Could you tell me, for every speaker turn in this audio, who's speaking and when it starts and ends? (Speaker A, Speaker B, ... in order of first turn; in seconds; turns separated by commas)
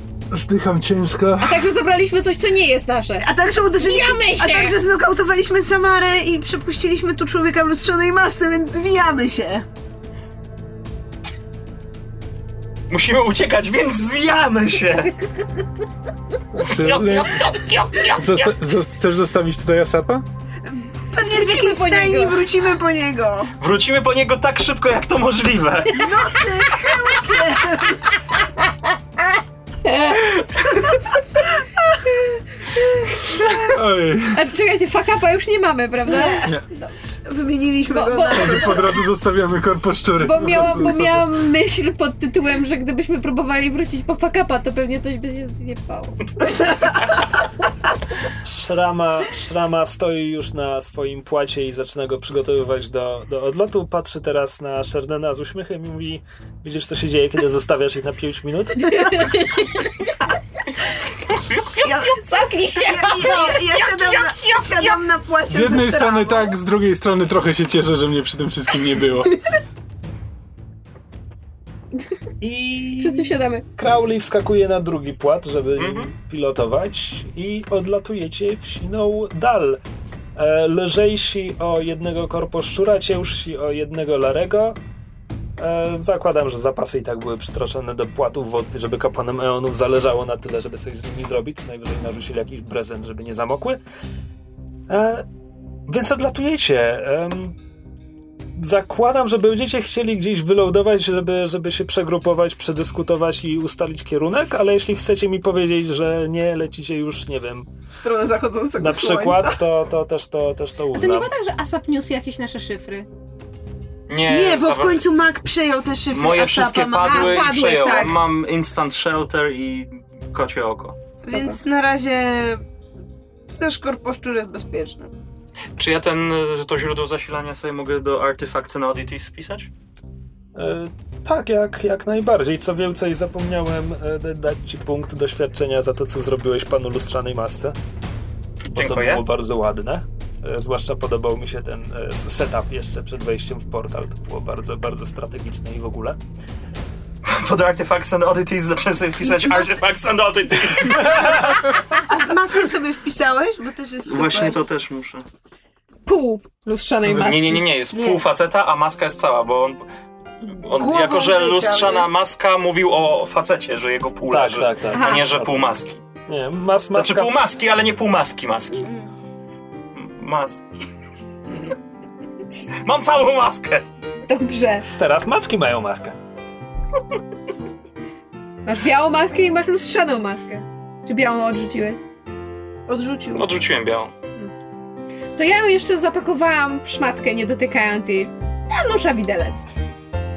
Speaker A: 0.3-1.7, Speaker B: 1.4-3.3, Speaker C: 3.2-9.7, Speaker B: 3.8-4.8, Speaker D: 12.9-15.1, Speaker A: 16.5-20.2, Speaker D: 16.7-18.5, Speaker C: 20.7-23.5, Speaker B: 21.3-22.4, Speaker D: 23.6-26.1, Speaker C: 25.9-28.1, Speaker B: 29.8-30.4, Speaker A: 33.6-34.4, Speaker B: 34.3-36.9, Speaker C: 36.1-36.6, Speaker C: 37.2-38.9, Speaker B: 37.9-38.9, Speaker A: 38.3-41.2, Speaker B: 40.2-46.6, Speaker E: 48.4-59.4, Speaker B: 58.8-59.9, Speaker D: 61.5-61.8, Speaker C: 61.8-62.2, Speaker B: 62.0-65.0, Speaker C: 62.8-66.6, Speaker A: 65.5-69.4, Speaker E: 72.4-79.8, Speaker B: 73.0-73.7, Speaker D: 75.8-76.1, Speaker E: 80.4-84.8, Speaker E: 85.6-93.8, Speaker E: 94.9-95.3, Speaker E: 95.9-97.6, Speaker E: 98.5-107.7, Speaker C: 107.9-109.6, Speaker E: 108.8-111.3, Speaker B: 110.9-113.1, Speaker D: 114.1-115.0, Speaker C: 114.3-118.2, Speaker D: 116.1-121.0, Speaker B: 117.0-118.2, Speaker C: 121.2-122.6, Speaker C: 123.6-125.1, Speaker D: 125.8-129.7, Speaker E: 130.6-137.8, Speaker E: 138.7-146.2, Speaker D: 138.8-139.2, Speaker D: 147.2-151.6, Speaker B: 149.2-149.8, Speaker C: 152.0-154.6, Speaker D: 154.1-155.2, Speaker B: 156.1-157.6, Speaker D: 157.1-159.8, Speaker C: 157.9-158.2, Speaker D: 160.4-166.0, Speaker C: 160.7-162.1, Speaker E: 164.3-165.7, Speaker B: 164.9-165.3, Speaker E: 166.3-167.4, Speaker D: 166.9-168.9, Speaker C: 168.8-169.1, Speaker D: 169.9-170.6, Speaker D: 172.8-173.9, Speaker B: 174.3-174.9, Speaker E: 174.9-176.2, Speaker B: 178.7-182.0, Speaker C: 182.9-183.5, Speaker D: 183.3-184.1, Speaker B: 185.4-189.7